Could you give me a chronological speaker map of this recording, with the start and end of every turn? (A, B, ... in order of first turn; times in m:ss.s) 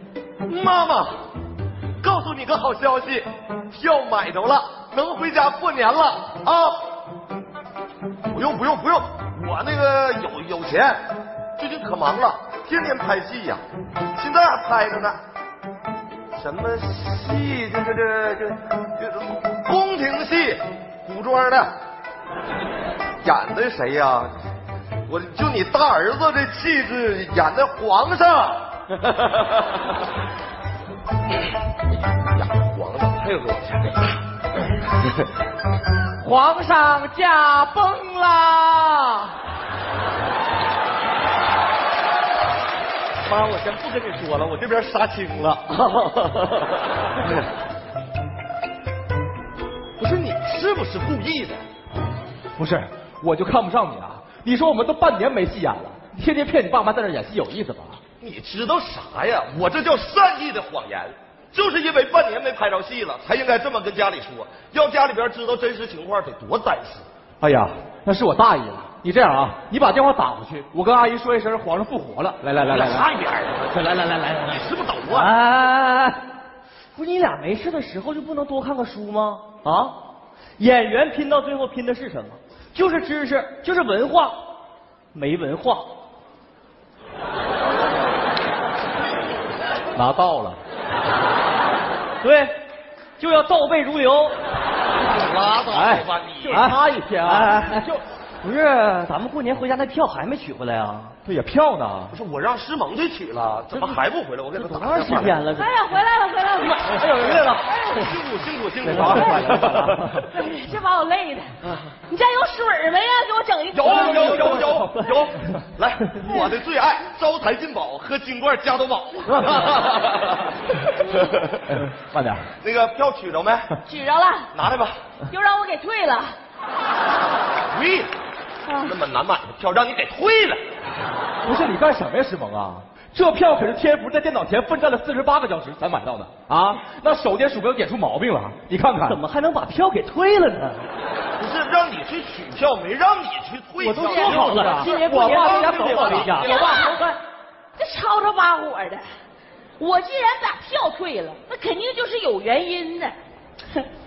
0:00.4-0:01.2 A
0:02.0-0:06.8 A
0:08.3-0:11.0 A
0:11.6-0:13.6 A
0:14.1-0:15.2 A
0:16.3-0:21.7 A
0:23.2-0:24.3 A
0:25.1-0:29.6 A
0:32.4-0:34.1 A
0:36.2-0:39.3 B
0:43.2-0:47.5 A
0:50.0-0:51.6 A
0:52.6-0:58.0 B
0:58.2-1:07.0 A
1:07.4-1:13.1 B
1:12.7-1:15.3 A
1:15.1-1:16.2 C
1:16.9-1:20.0 C
1:20.6-1:24.4 C
1:25.1-1:25.9 C
1:29.9-1:30.6 B
1:32.2-1:32.5 C
1:33.2-1:34.4 C
1:35.0-1:36.6 A
1:35.7-1:38.0 B
1:36.4-1:41.2 C
1:41.2-1:42.2 B
1:42.1-1:45.4 A
1:43.7-1:44.0 C
1:44.6-1:45.7 C
1:45.6-1:46.9 D
1:46.7-1:47.6 C
1:47.0-1:50.0 A
1:47.7-1:47.9 D
1:48.8-1:50.2 B
1:48.9-1:50.0 C
1:50.2-1:51.5 D
1:51.6-1:51.9 A
1:52.1-1:54.6 D
1:53.7-2:00.5 A
1:53.8-1:54.9 B
1:54.4-1:55.1 C
2:01.1-2:01.5 A
2:01.7-2:02.5 B
2:02.6-2:03.7 A
2:03.8-2:04.5 D
2:04.5-2:05.0 A
2:05.3-2:06.4 D
2:07.7-2:08.1 A
2:08.6-2:08.9 D
2:08.8-2:10.6 A
2:11.4-2:19.2 B
2:19.0-2:20.9 C
2:21.4-2:26.7 A
2:23.8-2:27.2 C
2:23.8-2:27.0 B
2:24.1-2:24.4 D
2:26.4-2:27.0 D
2:27.8-2:29.0 D
2:29.8-2:33.1 D